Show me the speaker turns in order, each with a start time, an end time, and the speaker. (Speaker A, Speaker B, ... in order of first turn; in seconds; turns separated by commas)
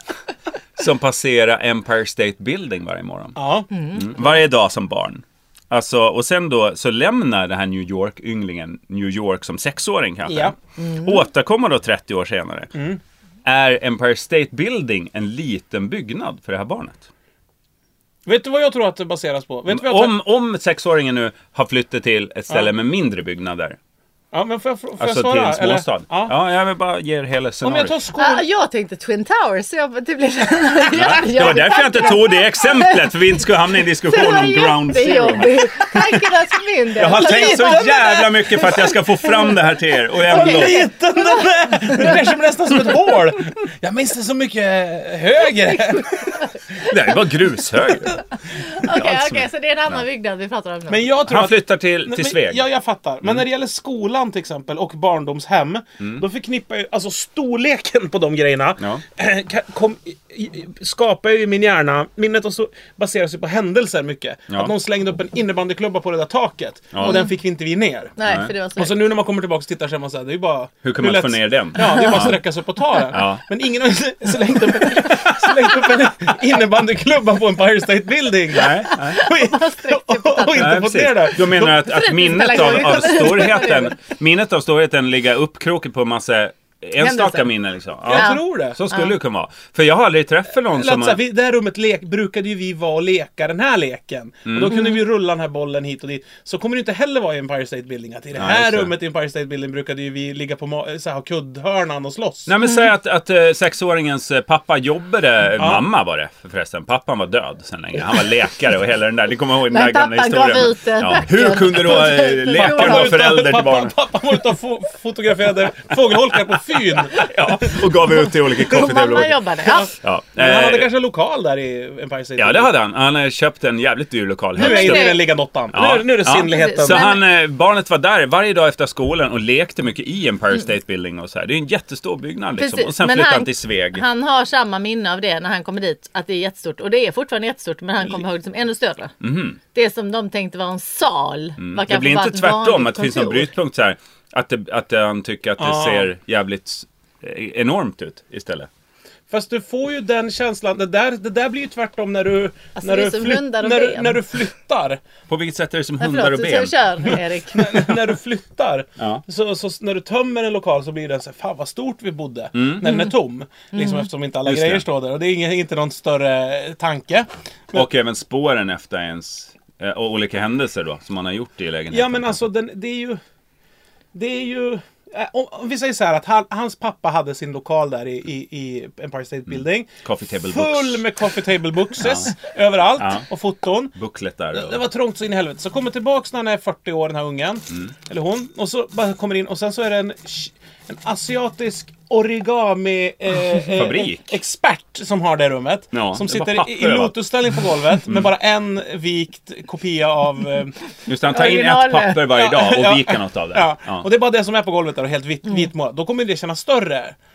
Speaker A: 0.8-3.4, Speaker B: 3.4-3.7, Speaker C: 3.7-4.0, Speaker A: 3.9-12.7, Speaker B: 10.3-10.5, Speaker C: 10.8-11.2, Speaker B: 12.7-13.0, Speaker A: 13.4-17.1, Speaker B: 18.2-20.2, Speaker A: 19.7-23.8, Speaker B: 24.3-26.3, Speaker A: 25.0-27.9, Speaker B: 27.6-28.4, Speaker C: 28.1-33.2, Speaker A: 30.9-36.0, Speaker C: 33.8-39.5, Speaker A: 37.0-40.9, Speaker B: 37.0-38.3, Speaker B: 40.2-46.8, Speaker C: 40.3-42.1, Speaker C: 45.9-46.9, Speaker A: 46.8-48.2, Speaker C: 48.5-51.1, Speaker A: 48.8-50.0, Speaker B: 50.9-68.2, Speaker A: 51.2-52.6, Speaker A: 66.9-67.2, Speaker C: 67.0-67.3, Speaker C: 68.2-68.9, Speaker A: 68.2-68.5, Speaker B: 68.8-83.5, Speaker A: 70.8-72.4, Speaker C: 71.8-72.3, Speaker A: 73.1-73.4, Speaker A: 78.5-79.2, Speaker C: 78.7-80.9, Speaker A: 80.5-91.2, Speaker C: 81.6-84.0, Speaker C: 87.0-87.5, Speaker B: 88.0-88.8, Speaker C: 88.1-89.1, Speaker B: 90.7-102.5, Speaker A: 94.5-94.8, Speaker A: 98.3-98.9, Speaker A: 102.5-113.9, Speaker B: 105.6-105.8, Speaker C: 109.7-113.2, Speaker B: 112.5-117.9, Speaker A: 117.0-120.9, Speaker C: 118.4-119.9, Speaker B: 119.6-122.7, Speaker A: 122.4-125.2, Speaker C: 124.6-125.3, Speaker B: 124.6-127.1, Speaker A: 125.7-134.0, Speaker C: 126.3-127.2, Speaker C: 132.6-139.1, Speaker A: 139.2-139.6, Speaker C: 139.7-143.5, Speaker A: 141.6-148.7, Speaker B: 145.6-146.1, Speaker B: 149.3-155.0, Speaker C: 152.8-154.2, Speaker A: 155.3-157.2, Speaker C: 156.0-157.9, Speaker B: 157.5-167.8, Speaker A: 162.5-162.8, Speaker C: 163.7-164.0, Speaker A: 164.4-164.8, Speaker A: 167.7-172.4, Speaker B: 171.9-173.2, Speaker B: 174.1-183.9, Speaker A: 179.5-181.1, Speaker A: 182.0-182.3, Speaker A: 183.0-183.2, Speaker A: 183.9-184.8, Speaker B: 184.5-200.8, Speaker A: 193.6-194.4, Speaker A: 195.9-197.2, Speaker A: 198.1-198.3, Speaker A: 201.1-204.1, Speaker C: 201.3-202.3, Speaker B: 202.2-207.2